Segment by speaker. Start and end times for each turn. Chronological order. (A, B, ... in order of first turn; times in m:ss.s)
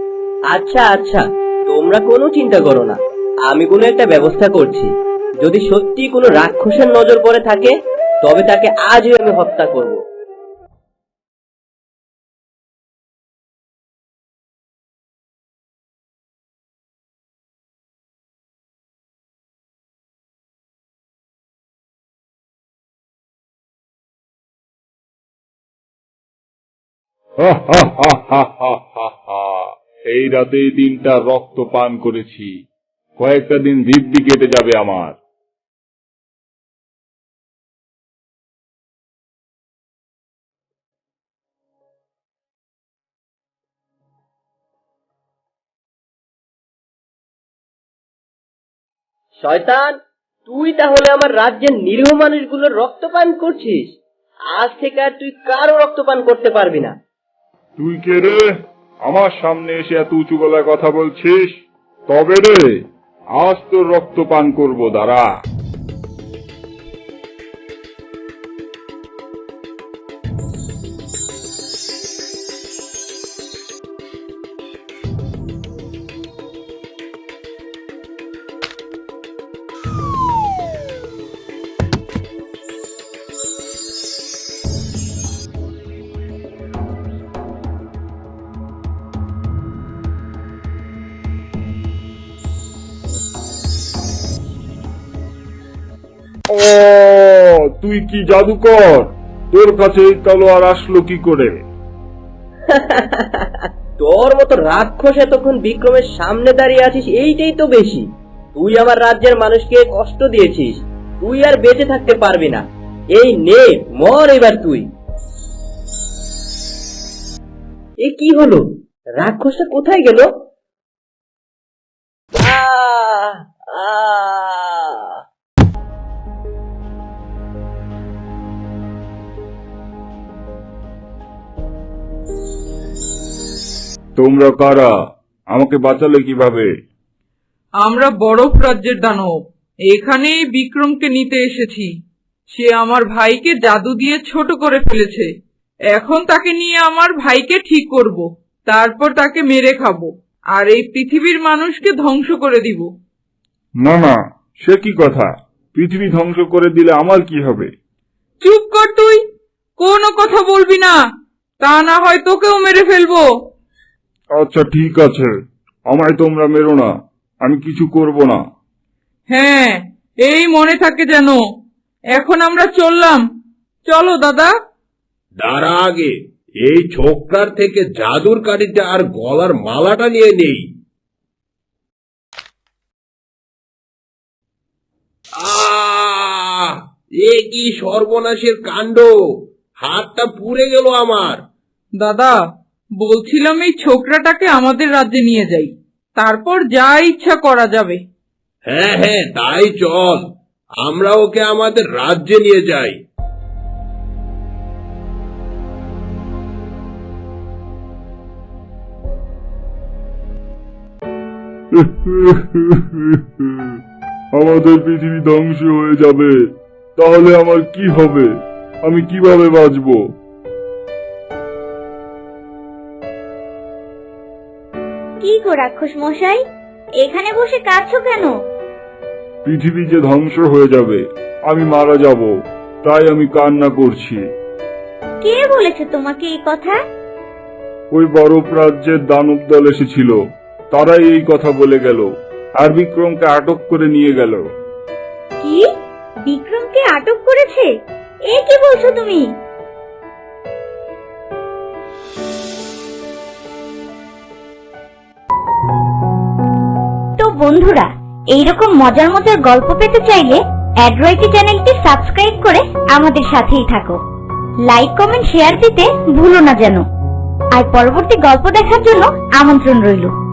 0:00.5-0:10.0 A
0:27.4-0:32.5 B
0:33.2-0:35.2 B
0:49.4-0:50.0 A
0:50.5-0:53.9 A
0:54.5-0:56.9 A
0:57.8-0:58.5 B
0:59.1-1:01.5 B
1:02.1-1:02.7 B
1:03.4-1:05.3 B
1:36.5-1:41.5 B
1:42.7-1:52.6 A
1:53.2-1:54.8 A
1:58.0-1:58.6 A
1:59.2-2:00.3 A
2:02.4-2:05.1 A
2:14.2-2:14.9 B
2:15.5-2:16.7 B
2:17.8-2:19.4 C
2:19.9-2:21.9 C
2:22.5-2:25.3 C
2:25.9-2:32.9 C
2:33.8-2:37.7 B
2:38.4-2:39.2 C
2:39.8-2:41.0 C
2:41.6-2:43.3 C
2:44.4-2:45.3 B
2:45.9-2:46.9 B
2:47.4-2:48.4 B
2:49.3-2:51.4 C
2:52.1-2:53.2 C
2:53.9-2:54.5 C
2:55.4-2:56.1 D
2:56.6-3:00.6 D
3:05.4-3:09.1 D
3:09.8-3:11.4 D
3:12.0-3:12.4 C
3:13.0-3:18.0 C
3:18.7-3:20.2 D
3:20.8-3:23.0 D
3:31.8-3:33.8 B
3:34.3-3:36.3 B
3:37.0-3:38.3 B
3:38.8-3:40.0 B
3:45.2-3:46.4 E
3:47.0-3:48.3 E
3:49.4-3:52.3 B
3:52.8-3:54.2 B
3:55.2-3:56.8 E
3:57.9-4:00.2 B
4:00.7-4:02.1 B
4:02.6-4:04.4 B
4:05.4-4:05.7 E
4:06.2-4:07.7 E
4:08.3-4:09.3 E
4:17.2-4:24.0 E
4:24.6-4:26.8 E
4:27.5-4:30.1 E